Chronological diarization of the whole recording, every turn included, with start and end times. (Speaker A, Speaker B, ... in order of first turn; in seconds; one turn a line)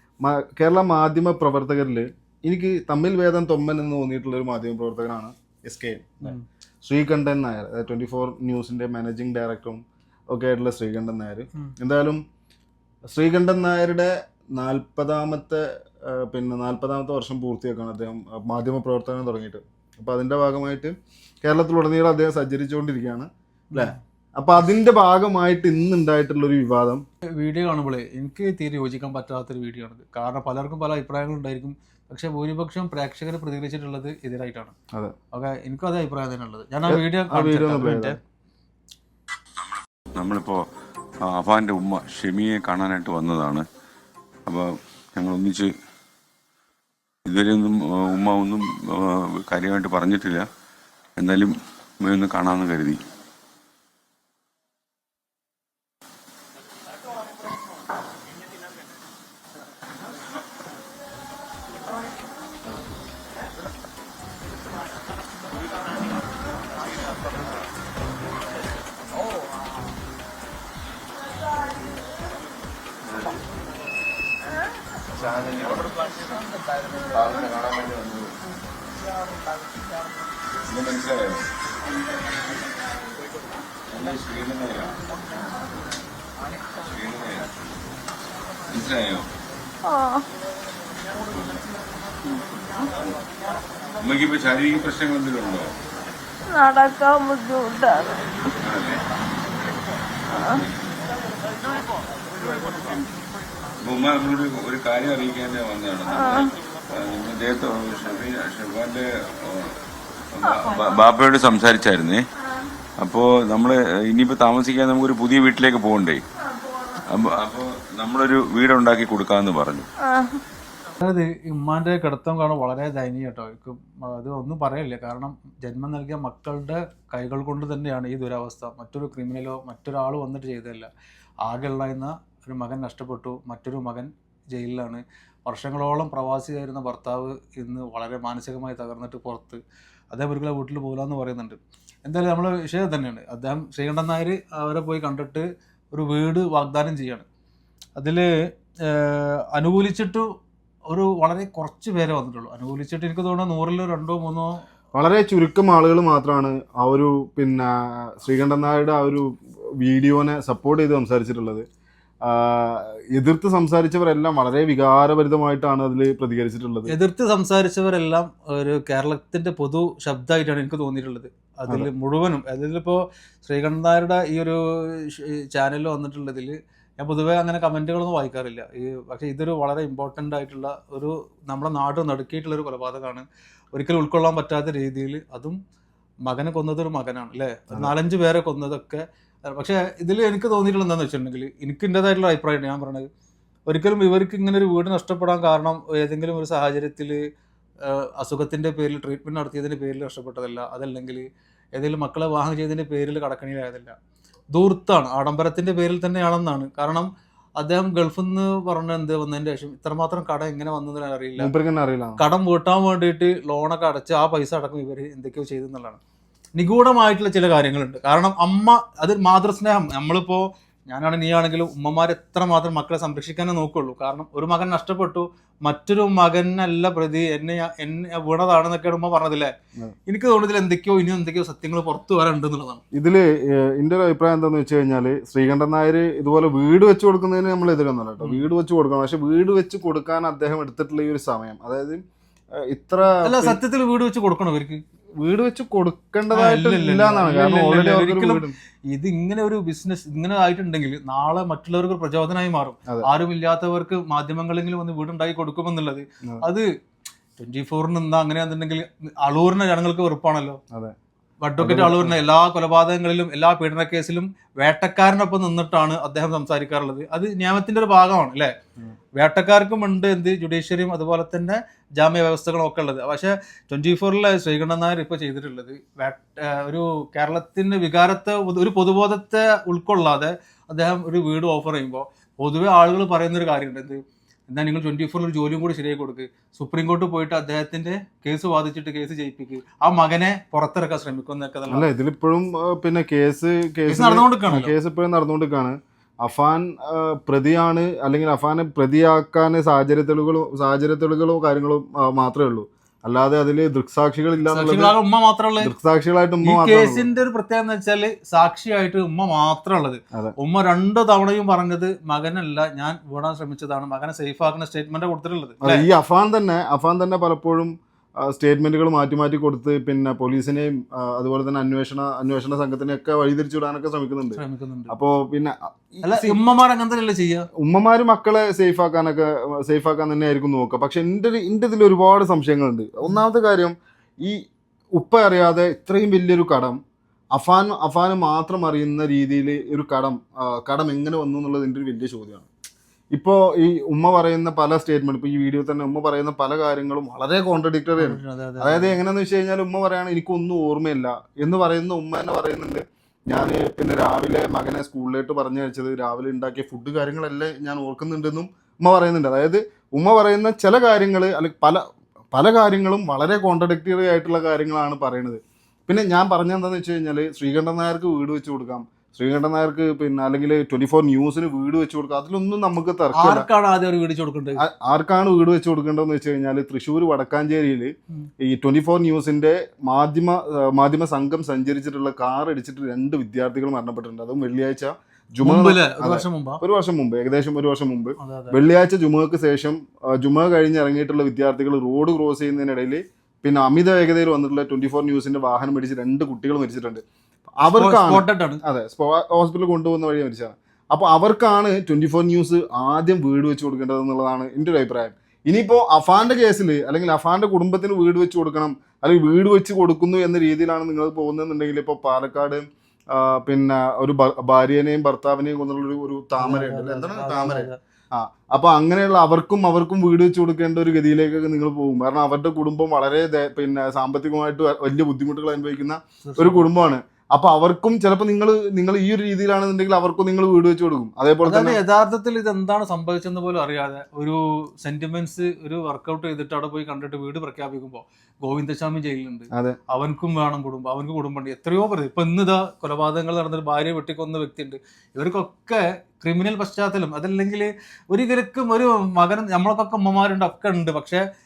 Speaker A: 0.2-12.2
Speaker A: 13.1-27.0
Speaker B: 27.4-34.8
Speaker B: 35.3-38.2
Speaker A: 36.9-38.1
Speaker C: 40.1-40.6
Speaker C: 41.2-43.6
Speaker C: 44.5-45.7
Speaker C: 47.2-50.5
Speaker C: 51.2-53.0
Speaker C: 75.2-75.9
Speaker C: 77.1-78.4
Speaker C: 80.7-81.4
Speaker C: 83.9-85.0
Speaker C: 86.8-87.5
Speaker C: 88.7-89.3
Speaker D: 89.8-90.2
Speaker C: 91.4-91.6
Speaker D: 92.2-92.5
Speaker C: 94.0-95.7
Speaker D: 96.5-98.3
Speaker C: 98.6-99.0
Speaker D: 100.3-100.6
Speaker C: 103.8-109.7
Speaker D: 106.1-106.5
Speaker C: 110.3-112.2
Speaker C: 113.0-116.2
Speaker C: 117.1-119.9
Speaker D: 120.0-120.4
Speaker B: 121.0-130.9
Speaker B: 131.4-147.2
Speaker B: 148.0-150.3
Speaker B: 150.9-154.6
Speaker A: 154.9-161.7
Speaker A: 162.2-166.9
Speaker B: 166.9-185.6
Speaker B: 186.2-193.1
Speaker B: 193.7-197.2
Speaker B: 197.8-203.9
Speaker B: 204.5-211.5
Speaker A: 211.4-212.2
Speaker B: 212.2-216.0
Speaker B: 216.6-229.5
Speaker B: 230.1-232.8
Speaker A: 232.9-242.0
Speaker B: 238.2-238.4
Speaker A: 242.6-243.6
Speaker B: 243.2-244.8
Speaker A: 245.2-248.5
Speaker B: 246.3-256.7
Speaker B: 257.4-260.6
Speaker B: 261.4-268.5
Speaker A: 261.6-262.2
Speaker B: 269.2-291.9
Speaker A: 291.7-304.9
Speaker B: 293.9-294.7
Speaker B: 304.4-305.7
Speaker A: 305.6-307.0
Speaker B: 306.4-315.9
Speaker A: 315.6-326.4
Speaker B: 324.3-324.9
Speaker B: 326.0-327.5
Speaker A: 327.6-334.4
Speaker A: 334.9-336.8
Speaker A: 337.3-342.5
Speaker A: 343.1-361.8
Speaker B: 347.9-349.0
Speaker A: 362.3-373.4
Speaker B: 373.1-374.6
Speaker A: 374.6-397.0
Speaker B: 385.4-386.6
Speaker B: 388.2-388.6
Speaker A: 397.6-431.8
Speaker B: 397.7-398.6
Speaker B: 416.4-417.8
Speaker B: 426.2-426.6
Speaker B: 431.4-451.2